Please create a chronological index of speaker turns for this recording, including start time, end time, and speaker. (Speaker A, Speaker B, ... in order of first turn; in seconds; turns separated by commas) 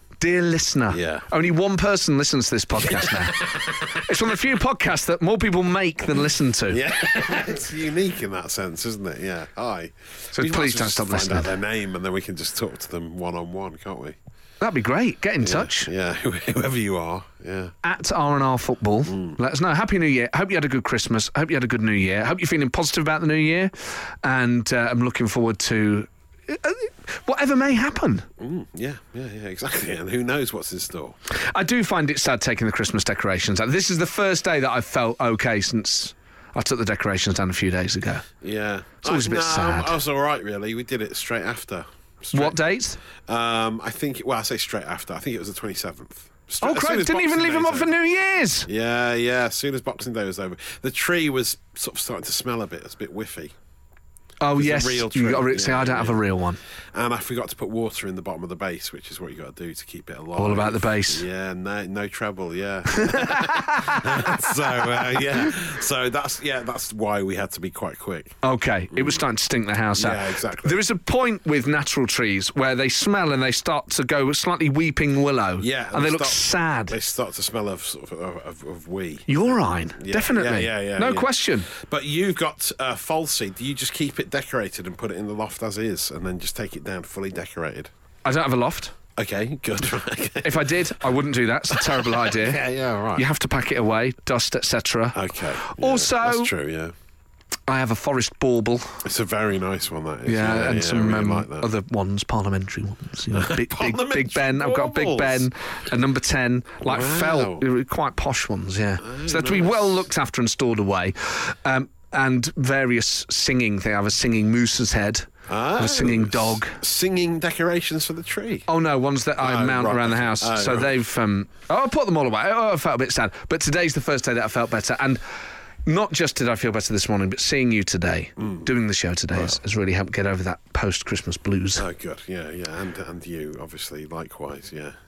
Speaker A: 0.2-3.5, Speaker B: 0.9-1.3, Speaker B: 2.8-4.3, Speaker A: 4.0-6.8, Speaker B: 6.7-14.2, Speaker A: 10.3-11.5, Speaker A: 14.6-15.9, Speaker B: 15.4-17.7, Speaker A: 17.8-23.7, Speaker B: 19.1-19.4, Speaker A: 24.2-28.2, Speaker B: 28.4-31.2, Speaker A: 31.3-38.2, Speaker B: 38.4-42.6, Speaker A: 39.0-39.9, Speaker A: 42.3-43.0, Speaker B: 43.3-47.9, Speaker A: 46.6-48.7, Speaker B: 48.6-53.5, Speaker A: 54.4-56.6, Speaker B: 54.5-56.2, Speaker B: 56.9-68.4, Speaker A: 60.4-61.2, Speaker A: 62.9-65.2, Speaker A: 68.4-76.9, Speaker B: 68.9-69.2, Speaker B: 69.9-70.8, Speaker B: 75.6-87.9, Speaker A: 79.3-81.7, Speaker A: 88.2-88.9, Speaker B: 89.2-90.9, Speaker A: 90.4-92.6, Speaker B: 91.7-93.3, Speaker A: 93.2-96.5, Speaker B: 95.1-96.9, Speaker A: 97.7-99.0, Speaker B: 99.0-101.7, Speaker A: 100.2-116.8, Speaker B: 103.3-105.5, Speaker B: 106.8-107.6, Speaker B: 109.0-110.1, Speaker B: 115.5-118.7, Speaker A: 118.7-125.2, Speaker B: 119.4-121.0, Speaker A: 125.8-131.8, Speaker B: 131.8-134.9